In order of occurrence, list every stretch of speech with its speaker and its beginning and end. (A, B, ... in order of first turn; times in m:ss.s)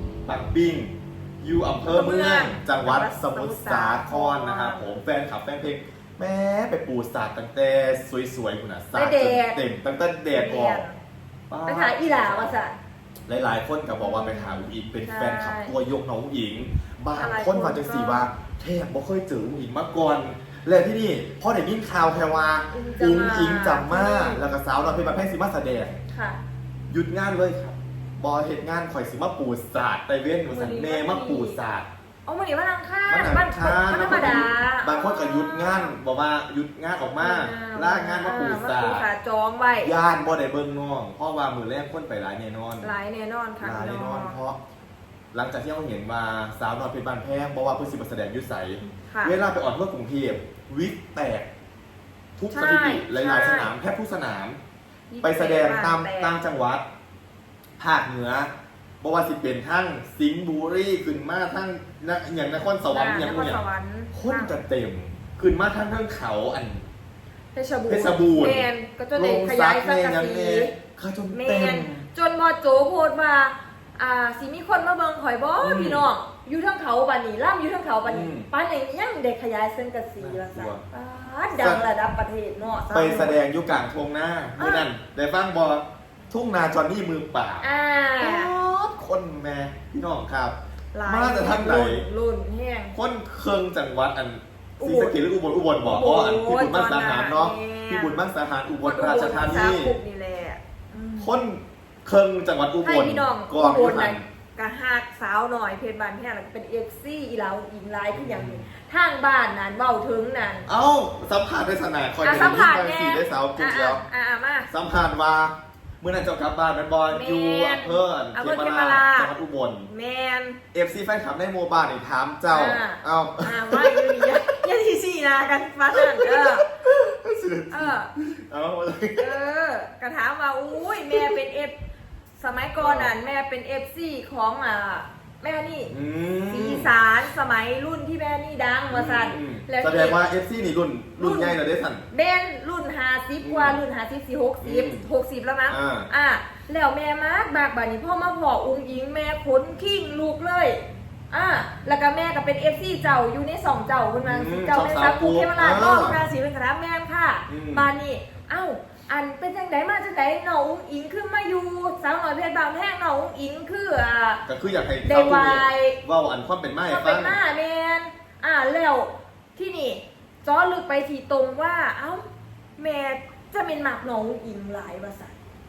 0:00.2-0:10.8 A
0:01.9-0:05.0 B
0:08.9-0:09.6 B
0:10.3-0:11.0 B
0:11.5-0:12.6 A
0:11.6-0:12.8 B
0:13.3-0:26.0 A
0:14.0-0:15.7 B
0:17.1-0:18.2 B
0:22.7-0:24.4 B
0:26.1-0:26.4 B
0:26.9-0:31.9 A
0:30.5-0:31.6 B
0:32.2-0:36.0 B
0:33.1-0:39.1 A
0:37.2-0:39.9 B
0:39.7-0:42.9 A
0:42.8-0:44.4 B
0:43.6-0:44.6 A
0:45.3-0:51.5 A
0:48.8-0:49.3 B
0:52.4-0:54.6 A
0:52.5-0:53.7 B
0:55.1-0:56.4 B
0:55.2-0:56.8 A
0:57.8-0:58.5 A
0:59.0-1:03.6 A
1:02.9-1:04.6 B
1:04.1-1:06.8 A
1:07.5-1:10.8 B
1:07.9-1:12.0 A
1:11.3-1:23.4 B
1:15.6-1:16.1 A
1:18.0-1:18.5 A
1:20.2-1:20.8 A
1:21.6-1:21.8 A
1:22.8-1:27.7 A
1:24.6-1:24.9 B
1:27.6-1:28.5 B
1:28.2-1:32.0 A
1:30.9-1:32.9 B
1:32.9-1:39.9 A
1:34.8-1:35.2 B
1:35.8-1:38.3 B
1:38.8-1:41.3 B
1:41.2-1:44.2 A
1:42.8-1:50.7 B
1:48.1-1:48.7 A
1:50.6-1:54.0 A
1:52.2-1:54.7 B
1:54.7-1:59.9 A
1:57.1-1:59.3 B
1:59.9-2:00.6 B
2:00.7-2:04.3 A
2:02.5-2:06.6 B
2:05.9-2:09.4 A
2:07.7-2:08.1 B
2:09.2-2:11.8 B
2:10.9-2:11.4 A
2:12.4-2:15.9 B
2:12.8-2:13.1 A
2:15.9-2:16.9 A
2:16.5-2:20.2 B
2:18.9-2:22.0 A
2:21.2-2:21.6 B
2:22.1-2:44.4 B
2:23.4-2:23.8 A
2:24.6-2:25.0 A
2:25.7-2:26.1 A
2:34.2-2:36.2 A
2:37.5-2:37.9 A
2:44.4-2:47.4 A
2:45.0-2:46.0 B
2:46.9-2:52.2 B
2:52.8-2:55.4 B